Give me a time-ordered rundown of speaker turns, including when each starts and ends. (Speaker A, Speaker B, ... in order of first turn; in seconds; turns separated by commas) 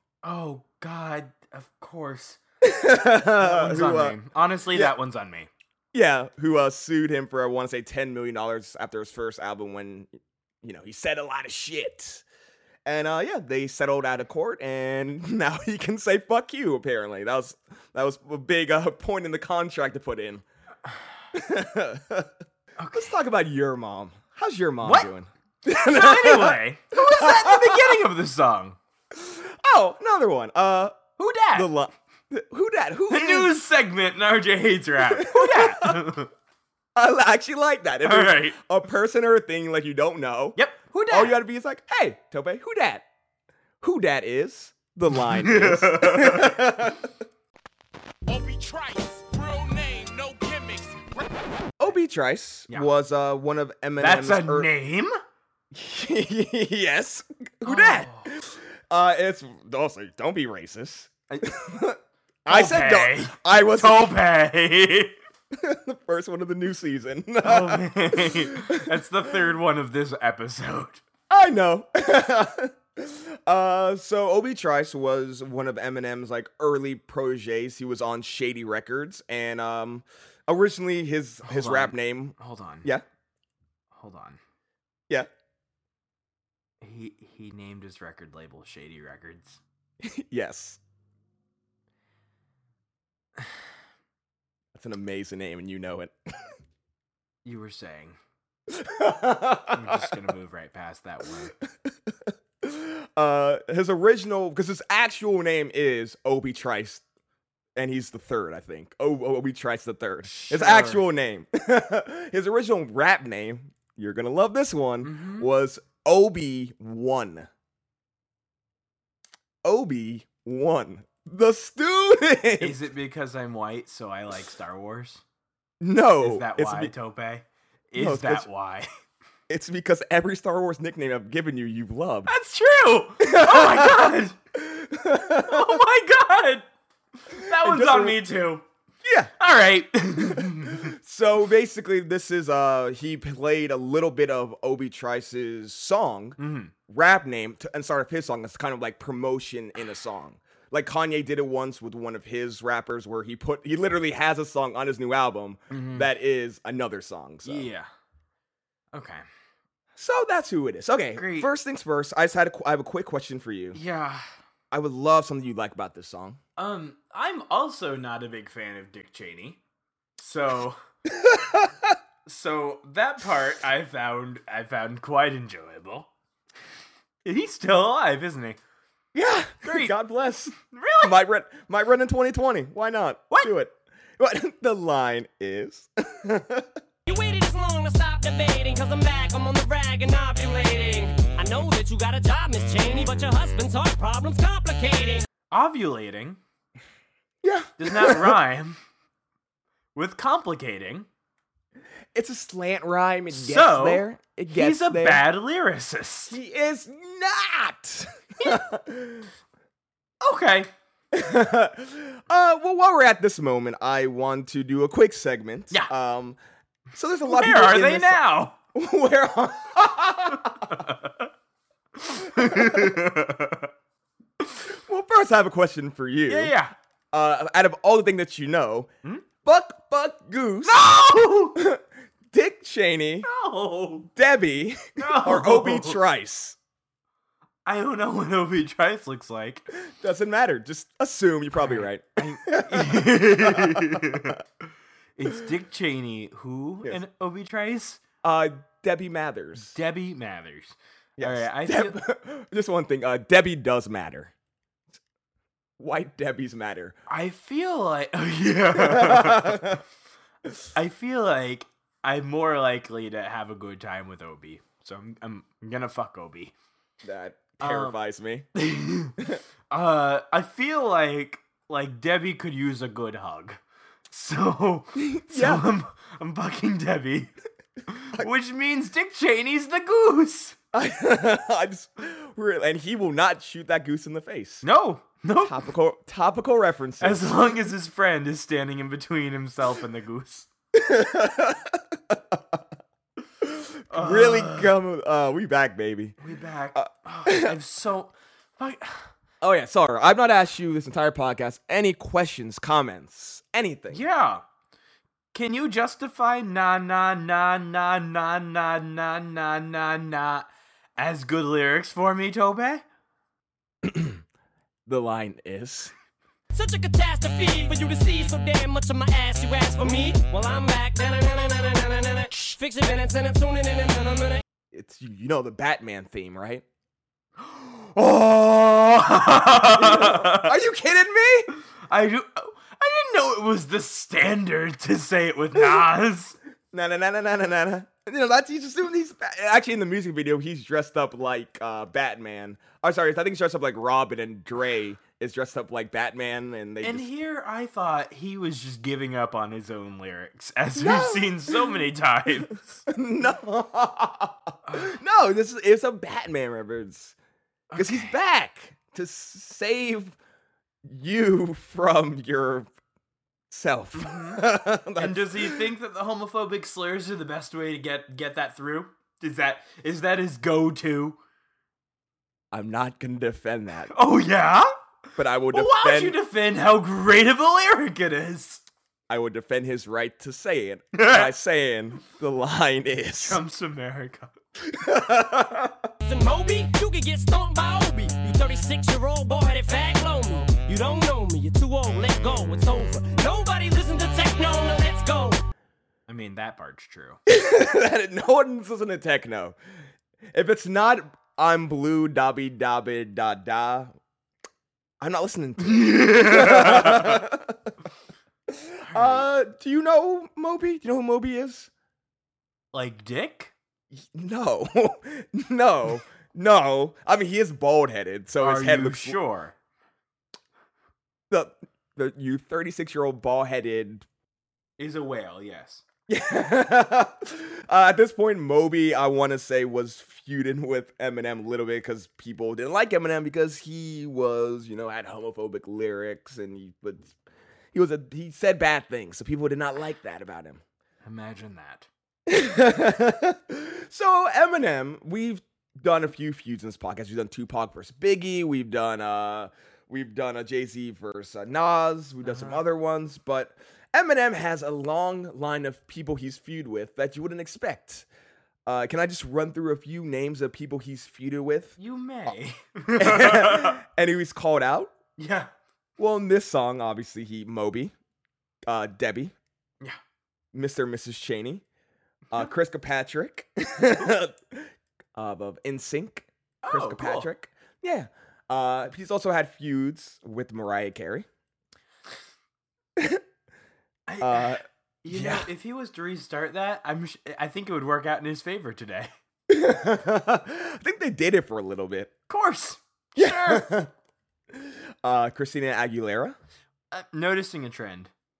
Speaker A: 0.2-2.4, Speaker B: 2.6-4.2, Speaker A: 3.4-5.5, Speaker B: 5.9-10.1, Speaker B: 10.6-12.2, Speaker B: 12.8-20.4, Speaker B: 21.3-22.3, Speaker A: 22.8-23.1, Speaker B: 22.9-28.0, Speaker A: 24.8-25.1, Speaker A: 25.7-28.8, Speaker B: 29.1-31.0, Speaker A: 31.2-31.7, Speaker B: 31.5-33.5, Speaker A: 33.1-36.3, Speaker B: 35.1-36.0, Speaker B: 36.9-40.6, Speaker A: 38.0-38.6, Speaker A: 40.5-41.4, Speaker B: 41.1-43.0, Speaker B: 43.8-47.1, Speaker A: 45.2-46.6, Speaker C: 48.3-51.3, Speaker B: 51.8-54.7, Speaker A: 54.0-55.1, Speaker B: 55.7-64.2, Speaker A: 57.6-58.3, Speaker A: 62.5-65.1, Speaker B: 65.5-69.0, Speaker A: 67.4-71.0, Speaker B: 71.3-83.0, Speaker A: 81.4-82.9, Speaker A: 83.9-84.4, Speaker A: 86.8-89.6, Speaker B: 90.0-90.8, Speaker B: 94.7-96.5, Speaker A: 97.4-98.2, Speaker B: 98.7-100.1, Speaker A: 99.7-101.5, Speaker B: 102.6-107.0, Speaker B: 107.8-117.5, Speaker A: 110.2-111.0, Speaker A: 115.0-115.5, Speaker B: 119.6-122.8, Speaker A: 122.6-125.2, Speaker B: 125.8-126.9, Speaker A: 126.2-128.9, Speaker B: 128.0-128.5, Speaker B: 129.5-132.3, Speaker A: 132.3-134.3, Speaker B: 133.2-135.8, Speaker A: 135.2-136.7, Speaker A: 137.3-138.6, Speaker B: 137.3-138.2, Speaker B: 139.0-139.3, Speaker A: 139.4-140.9, Speaker B: 140.2-157.7, Speaker A: 146.4-146.7, Speaker A: 155.7-156.1, Speaker A: 157.4-157.9, Speaker A: 158.9-159.2, Speaker B: 159.9-163.8, Speaker A: 161.1-161.5, Speaker A: 163.7-164.2, Speaker B: 164.7-166.4, Speaker A: 166.6-169.6, Speaker A: 170.2-170.8, Speaker B: 171.1-171.9, Speaker A: 172.2-176.1, Speaker A: 177.2-178.6, Speaker B: 179.1-186.7, Speaker A: 179.6-179.9, Speaker A: 180.6-181.2, Speaker D: 187.1-195.3, Speaker A: 195.5-196.4, Speaker B: 197.4-198.4, Speaker A: 197.8-198.8, Speaker A: 199.9-201.1, Speaker B: 202.1-205.2, Speaker A: 203.3-206.3, Speaker B: 206.3-209.3, Speaker A: 210.2-210.7, Speaker B: 211.1-216.4, Speaker B: 216.9-220.8, Speaker A: 217.2-218.6, Speaker A: 220.6-221.3, Speaker A: 222.0-223.7, Speaker B: 222.3-223.0, Speaker B: 224.7-226.5, Speaker A: 226.3-226.7, Speaker B: 227.1-228.9, Speaker B: 229.4-230.9, Speaker A: 230.6-231.6, Speaker B: 231.5-233.3, Speaker A: 233.2-234.1, Speaker B: 234.1-236.6, Speaker A: 235.0-236.0, Speaker A: 237.7-239.7, Speaker B: 239.8-244.4, Speaker A: 241.6-244.4, Speaker A: 245.2-248.0, Speaker B: 248.2-249.7, Speaker A: 249.6-252.0, Speaker B: 251.2-254.3, Speaker B: 255.8-257.0, Speaker A: 257.1-259.7, Speaker B: 258.7-259.8, Speaker A: 260.7-266.5, Speaker B: 267.0-268.5, Speaker A: 267.6-268.0, Speaker A: 268.5-277.3, Speaker B: 274.9-275.7, Speaker A: 277.9-280.6, Speaker B: 280.7-284.6, Speaker A: 284.6-285.6, Speaker B: 285.4-287.6, Speaker A: 287.0-290.5, Speaker B: 290.7-292.6, Speaker B: 293.4-296.2, Speaker A: 293.9-294.7, Speaker A: 296.2-299.1, Speaker B: 296.7-297.5, Speaker B: 299.4-304.0, Speaker A: 303.9-304.4, Speaker A: 305.3-312.8, Speaker B: 313.8-314.2, Speaker B: 314.9-315.9, Speaker D: 316.5-324.4, Speaker B: 324.7-326.6, Speaker A: 327.4-330.5, Speaker B: 329.6-331.5, Speaker A: 331.9-336.4, Speaker B: 336.7-347.1, Speaker A: 346.8-352.8, Speaker B: 350.7-351.8, Speaker B: 352.9-357.1, Speaker A: 354.7-354.9, Speaker A: 357.7-358.1, Speaker B: 357.8-360.1, Speaker B: 360.8-362.7, Speaker B: 363.5-365.6, Speaker A: 363.9-371.2, Speaker B: 372.5-373.9, Speaker A: 373.9-374.7, Speaker B: 375.2-376.2, Speaker A: 375.5-378.6, Speaker B: 379.1-383.4, Speaker A: 380.9-381.3, Speaker A: 383.2-384.3, Speaker B: 384.6-385.9, Speaker D: 386.0-395.4, Speaker A: 396.1-397.2, Speaker B: 397.3-399.6, Speaker B: 400.3-403.9, Speaker B: 405.0-407.6, Speaker A: 405.6-407.2, Speaker B: 408.5-411.7, Speaker A: 408.9-409.3, Speaker A: 412.7-413.5, Speaker B: 413.9-419.2, Speaker A: 418.4-419.5, Speaker B: 421.3-424.1, Speaker A: 424.8-425.8, Speaker B: 426.1-437.1, Speaker B: 437.7-440.6, Speaker A: 441.0-441.9, Speaker B: 442.3-458.1, Speaker A: 452.2-452.6, Speaker B: 458.6-461.7, Speaker A: 461.8-463.8, Speaker B: 462.9-464.9, Speaker A: 465.2-465.5, Speaker B: 466.0-467.9, Speaker B: 468.7-469.3, Speaker B: 470.5-471.6, Speaker B: 472.3-481.3, Speaker A: 476.6-477.3, Speaker B: 482.9-483.2, Speaker A: 484.1-489.1, Speaker B: 484.2-485.5, Speaker B: 489.5-492.1, Speaker A: 492.3-493.7, Speaker B: 493.1-493.9, Speaker B: 494.5-496.4, Speaker A: 496.9-498.1